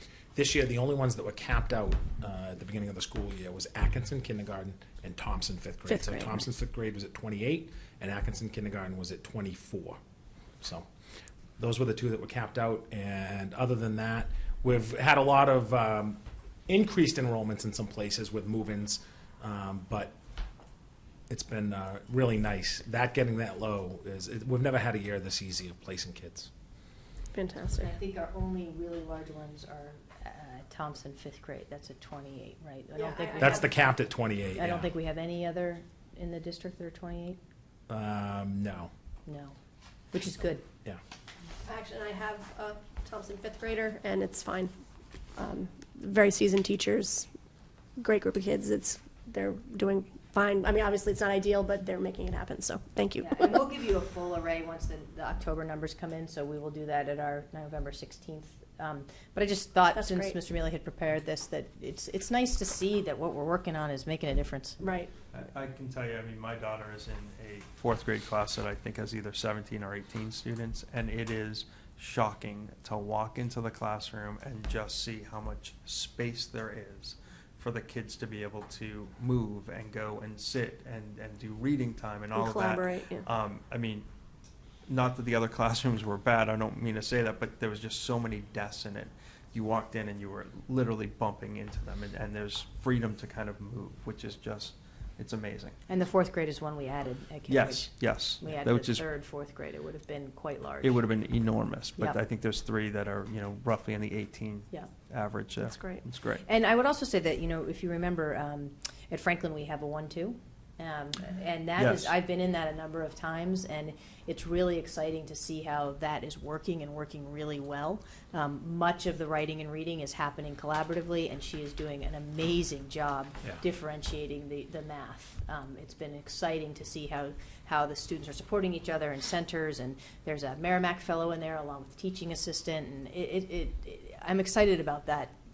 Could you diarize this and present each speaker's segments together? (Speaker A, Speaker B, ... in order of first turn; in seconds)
Speaker A: 0.3-10.0, 11.6-20.1, 21.3-26.5, 33.4-34.9, 37.9-38.9
Speaker B: 5.9-6.4, 27.3-27.9, 33.0-33.7, 41.7-44.7, 45.4-47.3, 48.0-53.6, 59.9-60.4, 64.8-65.1, 82.3-83.3, 105.6-106.0
Speaker C: 27.8-33.7, 34.5-37.4, 39.3-39.6, 40.1-40.6, 53.2-64.8, 95.9-101.0, 106.5-135.3
Speaker D: 65.3-84.1, 84.9-95.8, 97.5-99.1, 100.8-106.5, 111.8-112.2